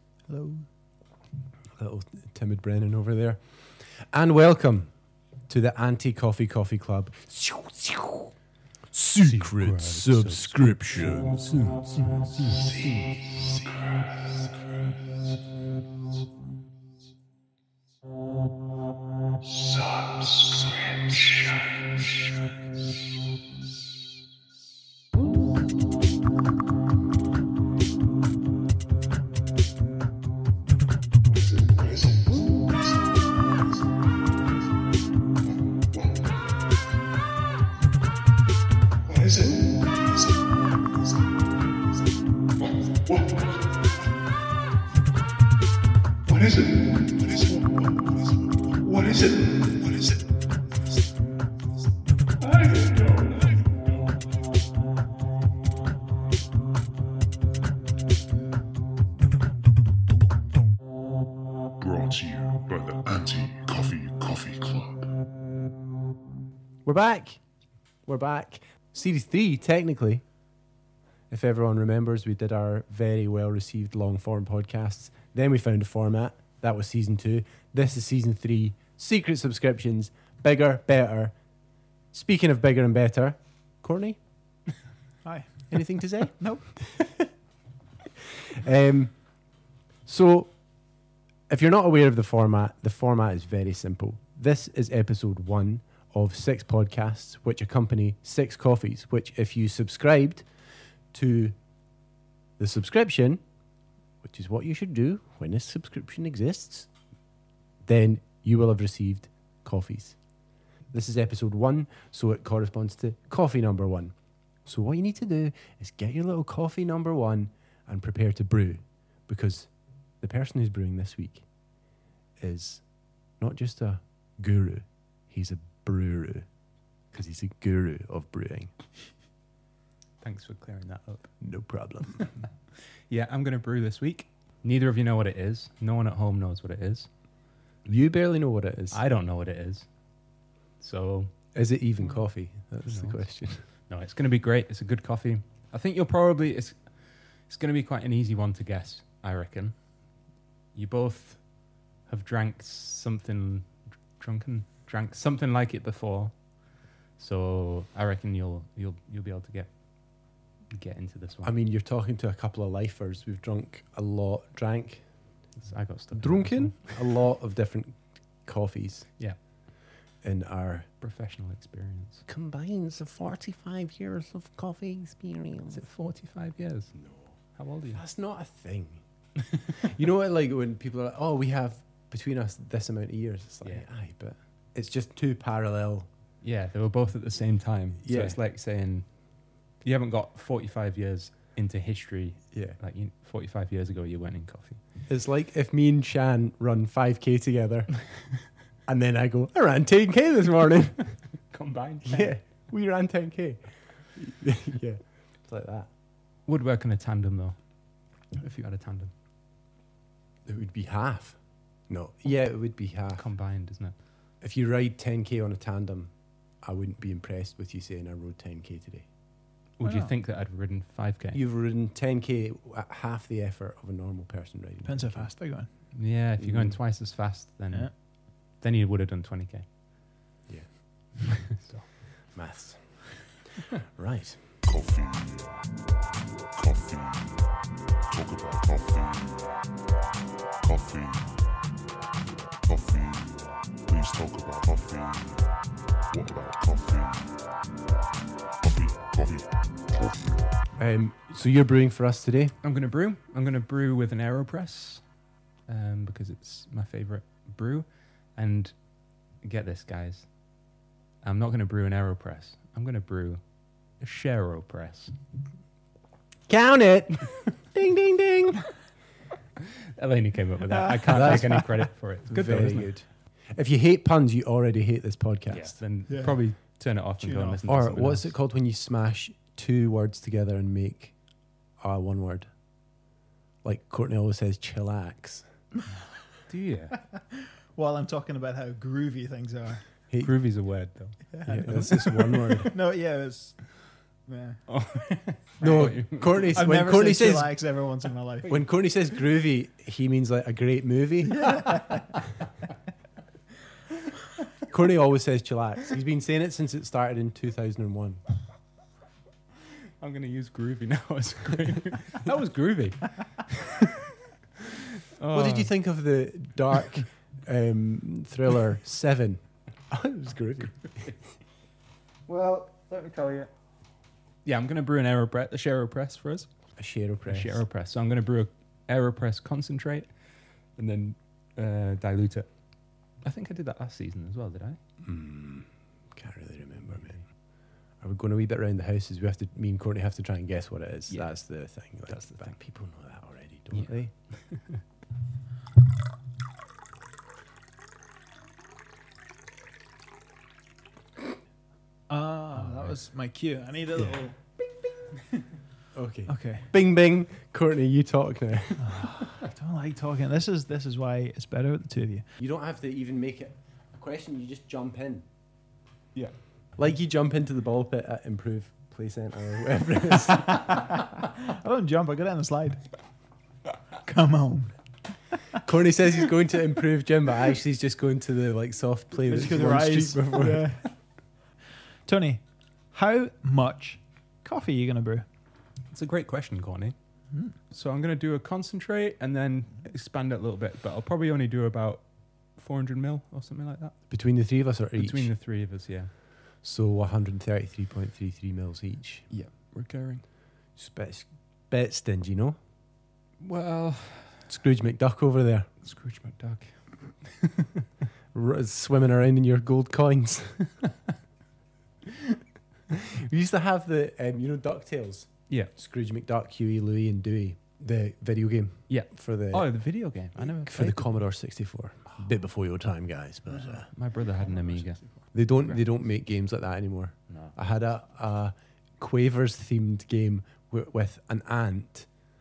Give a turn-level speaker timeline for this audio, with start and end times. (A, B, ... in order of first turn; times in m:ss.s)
0:00.3-0:00.7 A
0:01.8-0:04.9 B
0:05.5-0:08.3 B
0:08.9-0:13.6 B
0:09.2-0:11.4 C
0:12.3-0:12.6 C
0:20.0-0:21.7 D
0:31.5-0:32.4 D
0:39.1-0:39.8 D
0:46.3-0:47.0 D
1:01.8-1:05.1 D
1:06.8-1:07.4 B
1:08.1-1:10.2 B
1:11.3-1:21.4 B
1:22.1-1:24.2 B
1:25.2-1:26.6 A
1:25.7-1:26.4 B
1:28.5-1:29.2 B
1:30.1-1:30.5 B
1:31.5-1:40.5 B
1:41.1-1:41.6 B
1:42.6-1:43.4 B
1:44.2-1:46.9 B
1:47.8-1:50.2 B
1:50.9-2:01.5 B
2:02.4-2:02.9 B
2:03.4-2:06.5 B
2:07.1-2:08.7 B
2:10.2-2:11.3 C
2:11.4-2:12.3 B
2:13.1-2:17.1 C
2:17.8-2:19.0 B
2:18.9-2:19.9 C
2:20.8-2:21.3 C
2:21.5-2:23.6 B
2:22.8-2:29.9 C
2:30.7-2:31.5 C
2:32.0-2:36.6 C
2:37.2-2:41.5 C
2:41.4-2:45.1 B
2:45.6-2:47.0 C
2:46.2-2:49.1 B
2:50.2-2:50.9 B
2:51.0-2:52.2 C
2:52.3-2:55.8 B
2:55.7-2:58.0 C
2:57.0-2:57.3 B
2:57.9-2:59.0 B
2:59.8-3:06.1 B
3:06.4-3:14.8 C
3:08.0-3:08.4 B
3:12.5-3:12.8 B
3:15.1-3:18.2 B
3:18.9-3:21.2 B
3:21.5-3:22.4 C
3:22.0-3:25.9 B
3:26.4-3:29.1 C
3:30.4-3:33.2 B
3:33.2-3:34.0 C
3:34.4-3:39.1 B
3:39.8-3:41.4 C
3:39.8-3:40.1 A
3:41.3-3:45.3 B
3:44.8-3:45.7 A
3:45.9-3:49.7 C
3:46.4-3:46.8 B
3:50.5-3:51.3 B
3:51.5-3:51.9 C
3:52.3-3:54.5 B
3:54.6-3:55.6 D
3:56.6-3:57.5 D
3:58.1-3:59.6 D
4:00.6-4:01.4 D
4:02.6-4:05.5 D
4:06.1-4:07.5 D
4:08.6-4:09.5 D
4:10.8-4:12.6 B
4:12.6-4:15.0 C
4:15.7-4:18.8 C
4:19.4-4:20.3 C
4:21.2-4:25.2 C
4:26.5-4:28.6 B
4:30.0-4:32.9 C
4:31.1-4:35.8 B
4:35.5-4:38.3 C
4:36.1-4:36.4 A
4:37.2-4:37.6 A
4:37.7-4:41.1 B
4:41.8-4:42.5 B
4:43.6-4:45.5 B
4:46.5-4:47.0 C
4:47.0-4:49.9 A
4:50.2-4:51.2 C
4:51.3-4:53.6 A
4:51.5-4:52.7 B
4:54.3-4:54.6 A
4:54.7-4:56.6 C
4:55.6-4:57.5 B
4:56.5-4:58.6 A
4:58.5-5:01.7 B
5:01.3-5:02.0 A
5:04.7-5:08.2 B
5:10.0-5:13.7 C
5:15.2-5:15.7 C
5:15.3-5:21.1 B
5:22.3-5:23.5 C
5:24.4-5:26.5 C
5:26.8-5:27.6 B
5:27.3-5:30.1 C
5:30.8-5:32.5 C
5:33.2-5:34.8 C
5:35.0-5:37.3 B
5:38.0-5:44.1 B
5:41.1-5:42.6 C
5:43.7-5:44.8 C
5:52.1-5:54.4 A
5:55.9-5:59.0 B
5:56.3-5:56.7 A
5:58.8-6:02.3 A
6:02.4-6:05.3 B
6:06.8-6:10.8 B
6:10.5-6:10.9 A
6:11.5-6:12.8 A
6:14.0-6:14.7 A
6:15.6-6:20.7 B
6:19.3-6:21.0 A
6:22.1-6:25.3 A
6:25.9-6:27.0 C
6:27.7-6:34.0 C
6:34.1-6:35.3 B
6:35.0-6:36.1 C
6:36.6-6:39.3 B
6:39.3-6:40.2 C
6:40.8-6:42.6 B
6:43.4-6:44.5 C
6:44.5-6:45.7 B
6:45.8-6:47.5 C
6:48.3-6:50.7 B
6:53.1-6:59.7 B
6:58.9-7:01.1 C
7:00.4-7:03.9 B
7:03.5-7:05.1 A
7:03.9-7:05.8 C
7:05.3-7:12.1 B
7:07.3-7:07.6 C